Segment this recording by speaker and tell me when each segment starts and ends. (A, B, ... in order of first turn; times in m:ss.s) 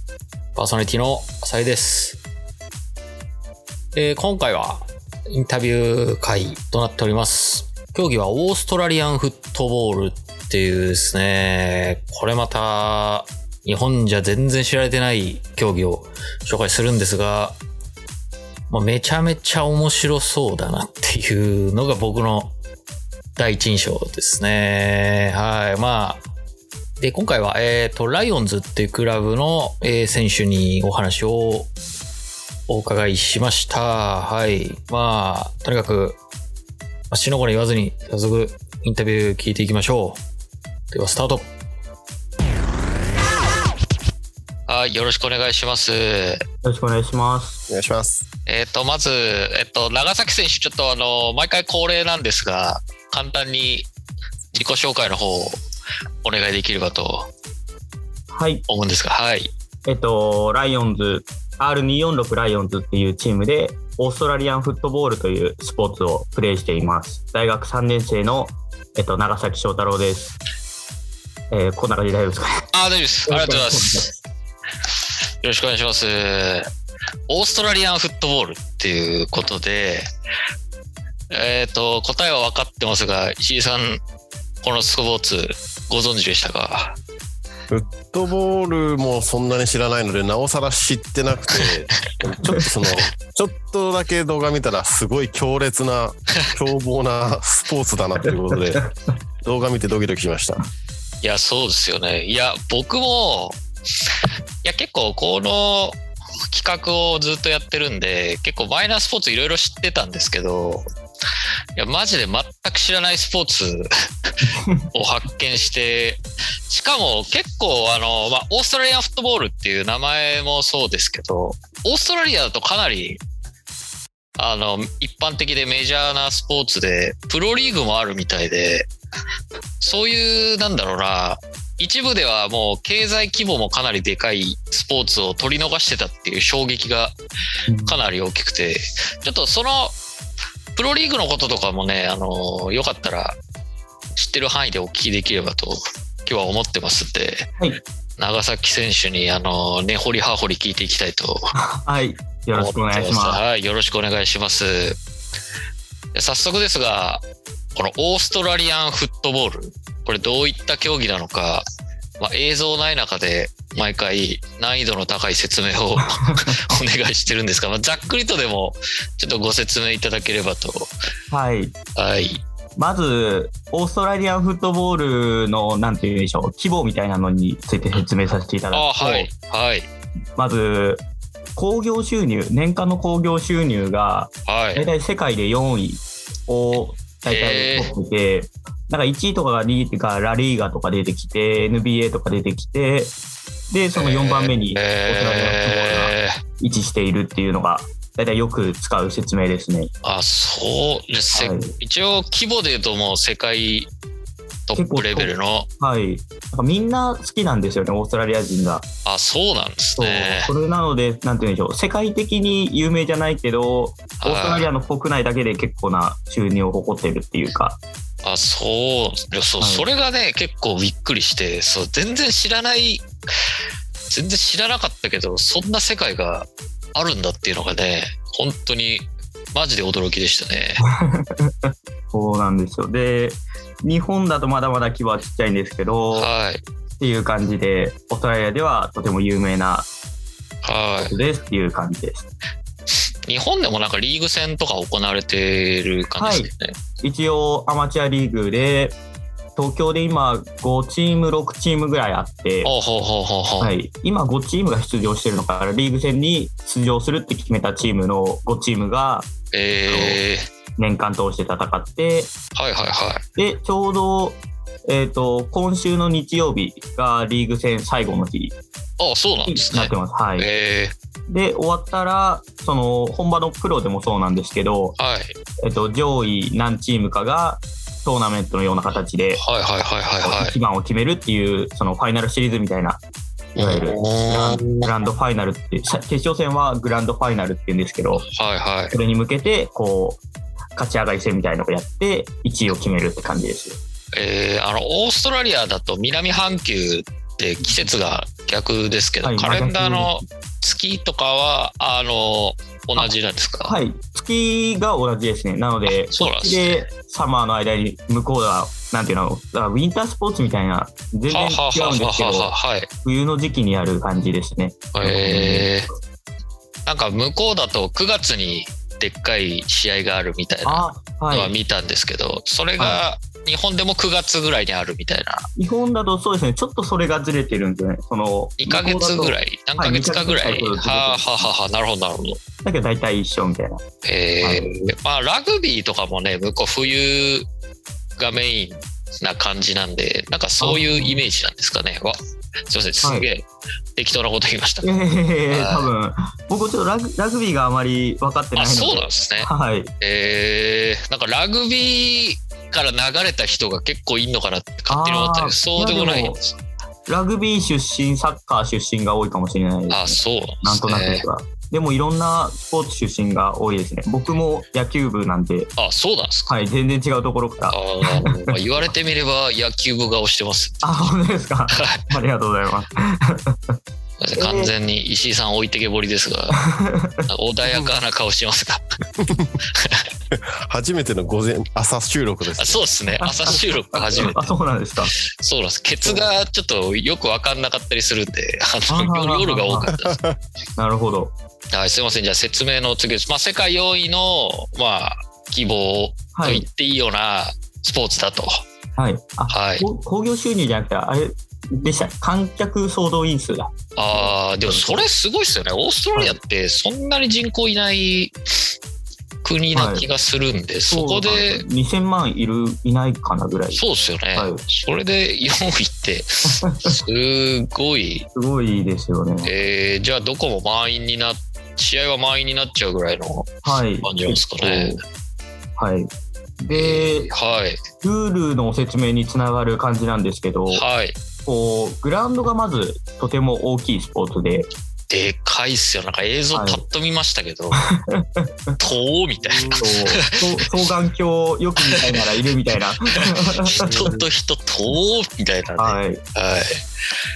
0:00.6-0:02.2 A
0:04.0-0:17.6 A
0:18.7-0:22.5 A
0:23.4-0:26.2 A
0:27.0-0:31.7 A
0:32.7-0:36.2 A
0:37.1-0:40.2 A
0:40.9-0:41.5 A
0:44.7-0:46.4 A
0:46.6-0:47.6 B
0:47.7-0:48.2 C
0:48.5-0:53.9 A
0:54.5-0:55.6 A
0:56.2-0:57.3 A
0:58.3-0:58.6 B
0:58.7-0:59.5 A
0:59.8-1:10.4 B
1:11.5-1:12.7 B
1:12.7-1:14.1 A
1:13.3-1:14.2 B
1:15.4-1:16.7 A
1:17.3-1:20.1 A
1:21.3-1:24.0 A
1:24.6-1:27.0 A
1:27.7-1:40.7 C
1:41.2-1:44.1 A
1:44.6-1:50.8 A
1:51.8-2:03.2 A
2:04.4-2:08.9 A
2:09.8-2:17.2 A
2:17.7-2:18.0 B
2:17.9-2:20.0 A
2:20.8-2:23.4 A
2:24.2-2:27.5 A
2:28.2-2:31.5 A
2:31.6-2:33.4 B
2:32.5-2:35.0 A
2:36.1-2:37.2 A
2:37.8-2:41.6 A
2:42.2-2:50.9 A
2:46.0-2:46.8 B
2:51.3-2:51.8 B
2:52.0-2:52.4 A
2:52.8-2:59.3 B
2:58.7-2:59.9 A
3:00.4-3:01.0 B
3:01.6-3:13.1 B
3:04.5-3:04.9 A
3:07.2-3:07.9 A
3:13.7-3:19.9 B
3:14.0-3:16.4 A
3:20.0-3:23.9 A
3:21.4-3:21.7 B
3:24.7-3:25.7 A
3:24.8-3:28.9 B
3:29.0-3:30.5 A
3:30.0-3:37.8 B
3:34.2-3:34.7 A
3:38.2-3:43.1 A
3:39.6-3:39.9 B
3:44.1-3:50.8 A
3:50.8-3:56.3 B
3:56.1-3:56.6 A
3:57.0-3:59.9 B
4:00.6-4:01.2 A
4:01.0-4:02.3 B
4:03.3-4:06.8 A
4:06.2-4:09.0 B
4:09.6-4:12.7 B
4:12.6-4:13.7 A
4:13.6-4:19.3 B
4:19.5-4:20.5 A
4:19.9-4:20.2 B
4:20.8-4:22.3 B
4:22.6-4:23.2 A
4:23.4-4:28.6 B
4:29.0-4:31.0 A
4:29.5-4:30.5 B
4:31.3-4:35.0 B
4:35.0-4:35.3 A
4:35.6-4:39.4 B
4:39.4-4:40.6 A
4:40.2-4:43.0 B
4:43.6-4:48.3 B
4:43.6-4:44.9 A
4:48.3-4:49.0 A
4:48.9-4:50.2 B
4:50.8-4:53.8 B
4:54.1-5:03.8 A
4:59.2-5:00.2 B
5:03.6-5:15.7 B
5:05.9-5:06.9 A
5:11.3-5:12.9 A
5:14.9-5:15.9 A
5:16.9-5:25.5 A
5:20.7-5:21.5 B
5:25.6-5:31.5 B
5:28.6-5:32.4 A
5:32.6-5:33.8 B
5:34.0-5:37.5 A
5:34.4-5:34.7 B
5:38.2-5:45.0 A
5:40.6-5:41.2 B
5:43.0-5:43.3 B
5:44.8-5:49.9 B
5:45.5-5:45.9 A
5:48.6-5:56.5 A
5:54.9-5:56.4 B
5:57.1-6:05.7 B
5:59.9-6:01.2 A
6:05.8-6:06.6 A
6:06.5-6:08.6 B
6:07.7-6:11.1 A
6:10.8-6:13.8 B
6:11.7-6:12.1 A
6:14.2-6:16.6 A
6:14.4-6:14.7 B
6:16.6-6:17.3 B
6:17.3-6:18.8 A
6:19.7-6:20.1 A
6:20.3-6:22.8 C
6:22.6-6:24.5 A
6:23.2-6:25.1 B
6:25.2-6:30.2 A
6:26.0-6:26.3 B
6:28.9-6:29.9 B
6:29.9-6:30.4 C
6:30.8-6:31.3 B
6:31.7-6:38.6 A
6:36.3-6:36.7 B
6:39.0-6:45.1 B
6:39.5-6:39.9 A
6:44.0-6:48.4 A
6:49.4-6:51.6 A
6:49.7-6:50.1 B
6:50.9-6:53.8 B
6:53.7-6:58.3 A
6:54.4-6:54.6 B
6:56.5-6:57.0 B
6:58.4-6:59.5 B
6:59.4-7:05.0 A
7:03.6-7:05.0 B
7:05.8-7:07.3 B
7:06.7-7:07.8 A
7:08.0-7:10.8 B
7:10.7-7:11.2 A
7:11.4-7:14.7 B
7:15.1-7:17.8 A
7:16.5-7:16.8 B
7:17.8-7:18.8 B
7:18.8-7:20.7 A
7:19.8-7:24.2 B
7:21.8-7:22.2 A
7:23.1-7:26.8 A
7:25.8-7:26.2 B